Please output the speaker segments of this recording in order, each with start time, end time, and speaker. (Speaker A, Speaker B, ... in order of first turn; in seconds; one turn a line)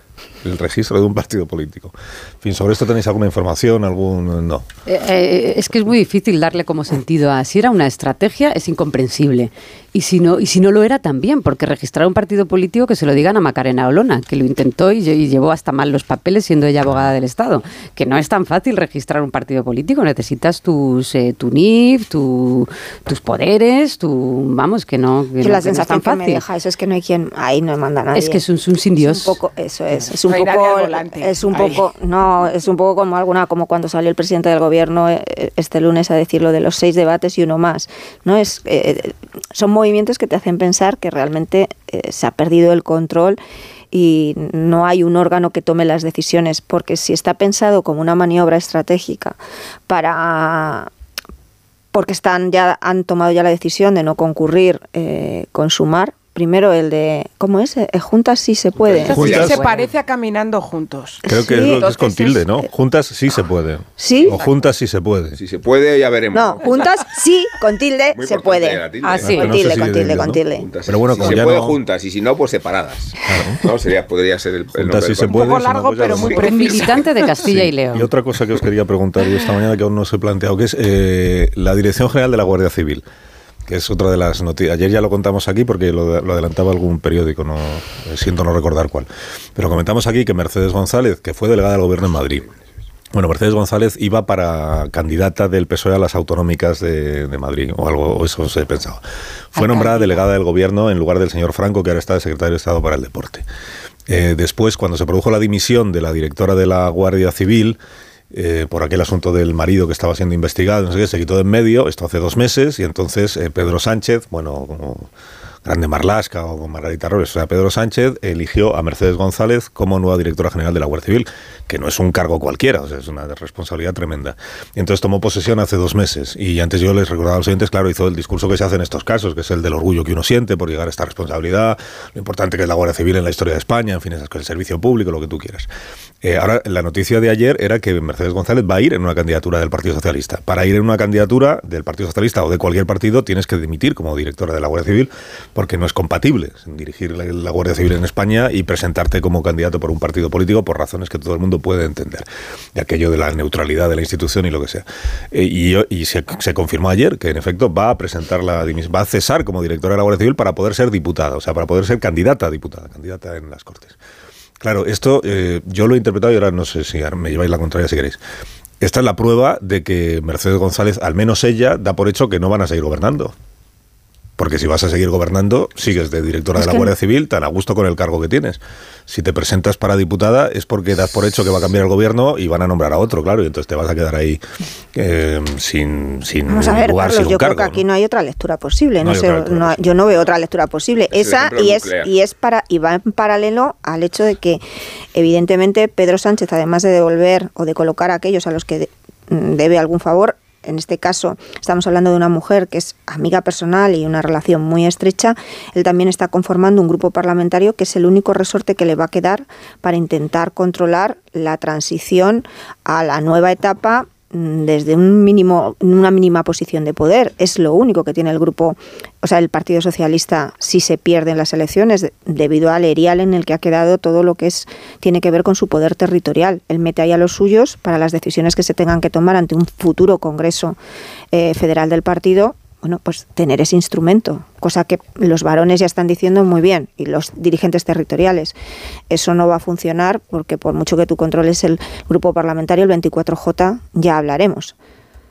Speaker A: 0.4-4.7
Speaker B: 4.9-26.4
Speaker C: 25.4-28.4
Speaker B: 28.1-29.4
Speaker C: 29.0-43.4
Speaker D: 30.2-31.8
Speaker C: 43.9-49.4
Speaker C: 49.9-50.9
Speaker C: 51.9-59.5
Speaker E: 58.9-59.5
Speaker B: 59.0-59.9
Speaker A: 59.1-59.6
Speaker D: 59.3-62.4
Speaker A: 61.2-65.4
Speaker C: 61.3-62.3
Speaker C: 64.0-64.4
Speaker E: 65.3-66.9
Speaker C: 66.3-70.7
Speaker E: 68.1-69.5
Speaker B: 69.0-69.5
Speaker A: 69.2-71.8
Speaker E: 70.5-75.3
Speaker A: 73.2-73.6
Speaker A: 74.8-76.5
Speaker D: 75.3-77.1
Speaker E: 76.1-76.4
Speaker B: 76.3-78.1
Speaker A: 77.4-83.0
Speaker A: 83.7-92.5
Speaker A: 93.1-99.0
Speaker A: 99.5-103.4
Speaker C: 99.6-100.2
Speaker A: 104.1-107.8
Speaker A: 108.3-115.1
Speaker A: 115.6-135.7
Speaker A: 136.2-164.0
Speaker A: 164.6-168.2
Speaker A: 168.8-173.3
Speaker A: 174.4-184.4
Speaker C: 176.6-176.9
Speaker A: 184.9-187.8
Speaker C: 186.5-194.6
Speaker A: 189.0-190.2
Speaker E: 191.1-192.1
Speaker C: 195.1-230.8
Speaker C: 231.3-238.5
Speaker C: 239.1-244.7